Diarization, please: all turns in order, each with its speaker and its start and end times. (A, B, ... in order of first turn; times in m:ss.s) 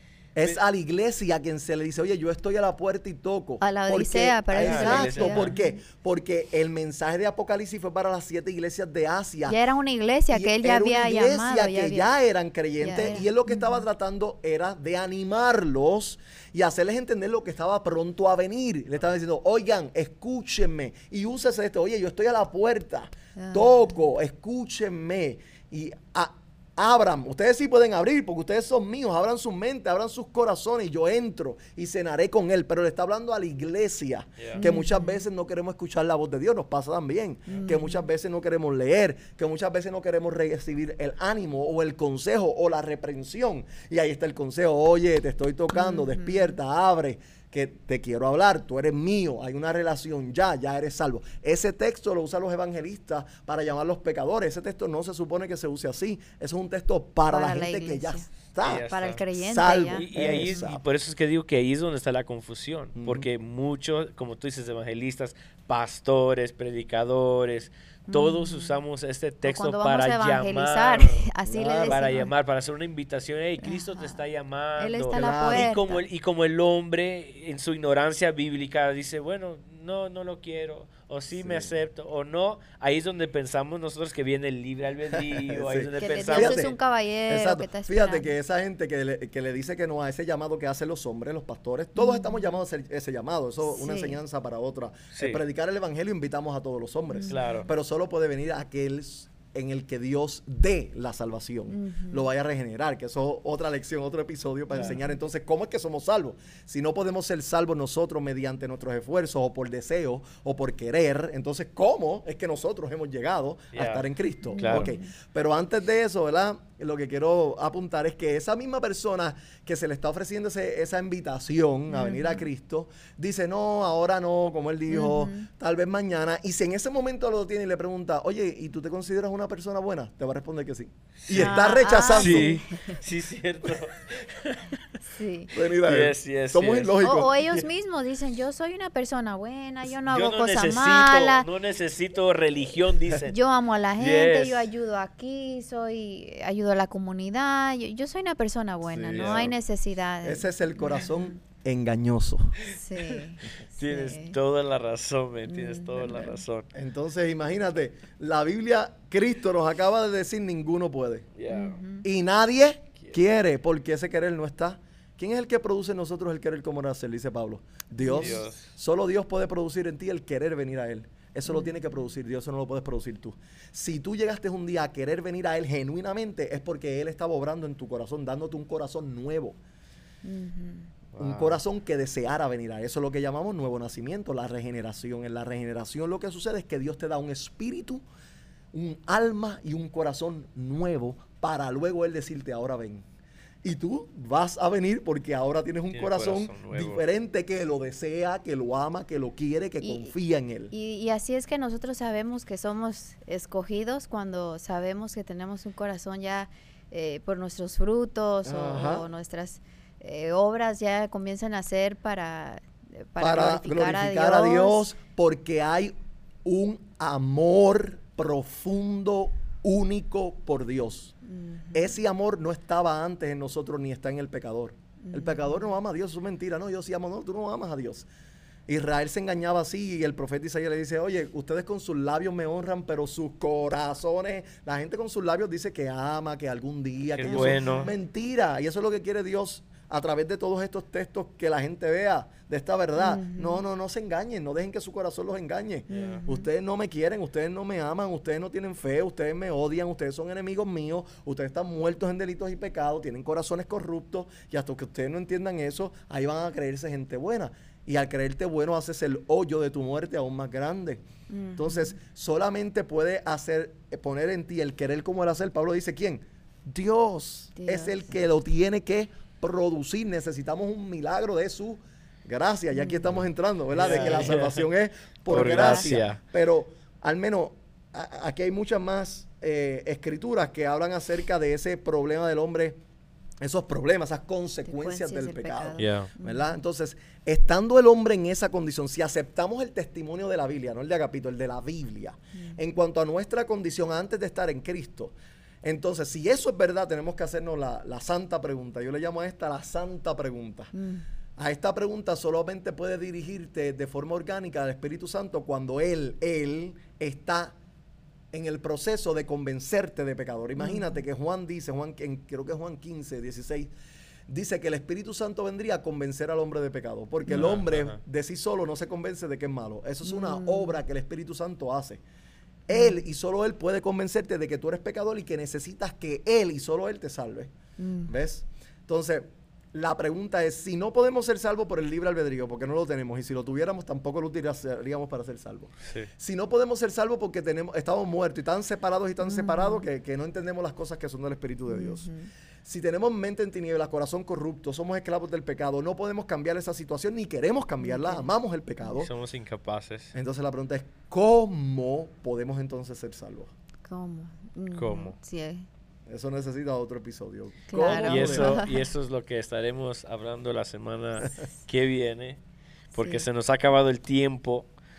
0:00.3-0:09.6 A
0:03.6-0:05.8 B
0:04.6-0:05.6 C
0:09.4-0:12.1 B
0:10.3-1:00.8 A
0:12.8-0:13.8 B
0:23.4-0:23.7 B
0:34.5-0:35.2 B
0:37.5-0:38.0 B
0:45.7-0:46.6 B
0:57.3-1:00.7 B
0:58.6-0:59.2 C
0:59.9-1:11.3 C
1:03.0-1:03.3 A
1:08.1-1:08.8 B
1:09.4-1:12.3 B
1:11.4-1:12.1 A
1:11.8-1:26.7 C
1:13.6-1:14.2 B
1:14.8-1:16.0 B
1:15.1-1:15.7 A
1:21.3-1:21.7 A
1:25.1-1:26.7 A
1:26.0-1:28.3 B
1:27.3-2:12.6 A
1:32.0-1:32.5 B
1:33.6-1:34.2 B
1:35.2-1:35.4 C
1:37.1-1:37.4 B
1:37.3-1:37.7 C
1:41.7-1:42.2 B
1:44.7-1:45.1 B
1:53.7-1:54.0 C
1:54.5-1:55.1 B
1:54.6-1:54.9 C
2:01.9-2:02.4 B
2:04.9-2:05.5 B
2:11.2-2:11.6 C
2:11.3-2:13.0 B
2:12.1-2:14.8 C
2:15.1-2:15.5 B
2:15.5-2:17.3 A
2:15.7-2:17.6 C
2:17.0-2:21.5 B
2:20.0-2:23.4 C
2:23.3-2:31.3 B
2:24.0-2:24.7 C
2:28.8-2:29.5 A
2:29.1-2:29.5 C
2:30.2-2:32.6 A
2:32.7-2:34.4 B
2:33.4-2:36.7 C
2:35.5-2:36.4 B
2:36.7-2:41.3 A
2:41.3-2:41.8 C
2:41.5-2:42.0 B
2:42.0-2:59.6 A
2:48.0-2:48.4 B
2:48.1-2:48.7 C
2:51.5-2:52.0 B
3:00.2-3:00.9 B
3:01.1-3:01.6 C
3:01.2-3:08.0 A
3:08.7-3:13.0 A
3:13.6-3:20.7 A
3:15.9-3:17.0 C
3:19.8-3:20.1 B
3:20.7-3:34.9 B
3:28.4-3:29.1 A
3:33.2-3:35.9 A
3:36.4-3:41.1 A
3:41.2-3:42.0 B
3:41.7-3:48.1 A
3:45.0-3:45.7 B
3:48.7-4:21.0 A
3:57.1-3:57.9 C
3:57.2-3:57.9 B
4:03.0-4:03.6 B
4:05.9-4:06.5 B
4:05.9-4:06.2 C
4:21.3-4:22.0 B
4:21.6-4:42.8 A
4:27.6-4:28.1 B
4:32.7-4:33.1 B
4:33.7-4:34.6 C
4:35.3-4:36.2 C
4:35.3-4:36.0 B
4:43.4-5:00.7 A
4:44.7-4:46.6 B
4:45.8-4:46.1 C
5:00.7-5:01.0 B
5:01.4-5:07.5 A
5:08.3-5:13.7 A
5:10.6-5:11.0 B
5:14.3-5:22.0 A
5:17.3-5:18.0 C
5:20.0-5:20.8 B
5:22.7-5:23.0 B
5:22.7-5:27.5 A
5:27.8-5:28.1 B
5:28.1-5:42.1 A
5:39.2-5:39.8 B
5:41.7-5:42.3 B
5:42.6-5:49.1 A
5:47.8-5:48.3 B
5:49.0-5:50.1 C
5:50.1-5:53.5 A
5:53.8-5:55.7 B
5:54.7-5:55.1 C
5:56.1-5:58.6 A
5:57.7-5:58.8 B
5:58.0-6:02.4 C
6:02.9-6:04.7 C
6:03.0-6:03.2 B